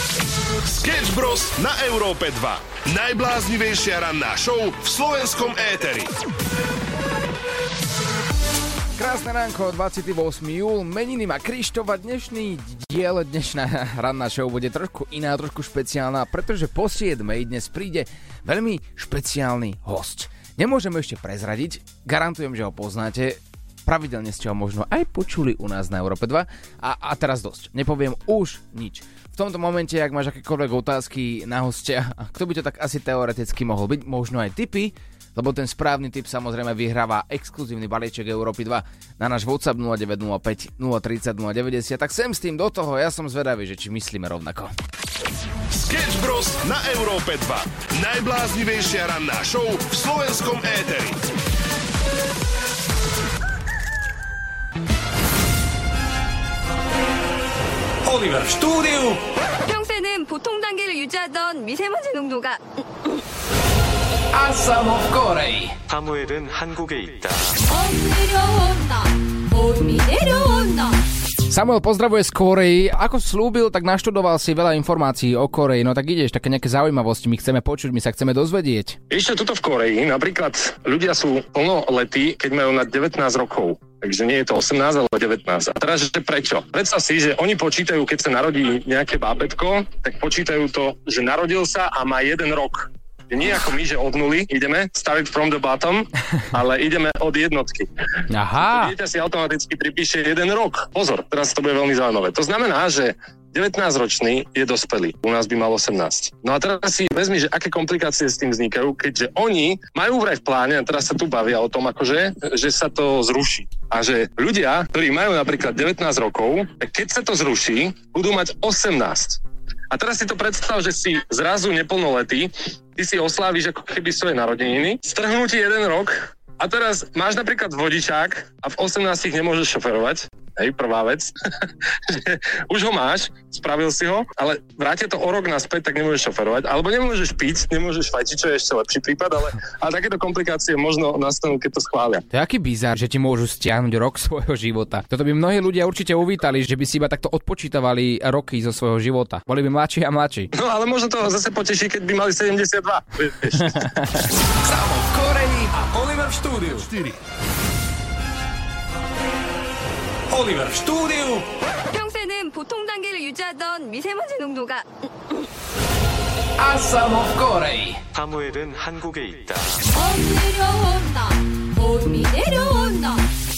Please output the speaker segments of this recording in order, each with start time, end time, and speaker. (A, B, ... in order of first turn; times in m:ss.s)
0:00.6-0:06.1 A
0:09.0-0:44.7 B
0:45.7-0:51.2 A
0:58.1-0:59.2 C
0:59.7-1:03.1 D
1:04.3-1:05.7 B
1:05.9-1:07.6 C
1:06.2-1:07.3 E
1:07.7-1:11.0 D
1:11.5-1:19.0 B
1:19.1-1:37.9 F
1:38.3-1:39.0 B
1:38.6-1:59.4 F
1:59.9-2:11.3 F
2:12.1-2:22.2 F
2:22.3-2:30.5 B
2:30.6-2:33.9 F
2:33.8-2:34.2 B
2:34.8-2:36.9 C
2:36.8-2:37.2 A
2:40.3-2:41.4 C
2:41.9-2:45.3 D
2:46.7-2:47.8 B
2:48.1-2:48.9 C
2:48.4-2:49.5 E
2:49.9-2:53.2 D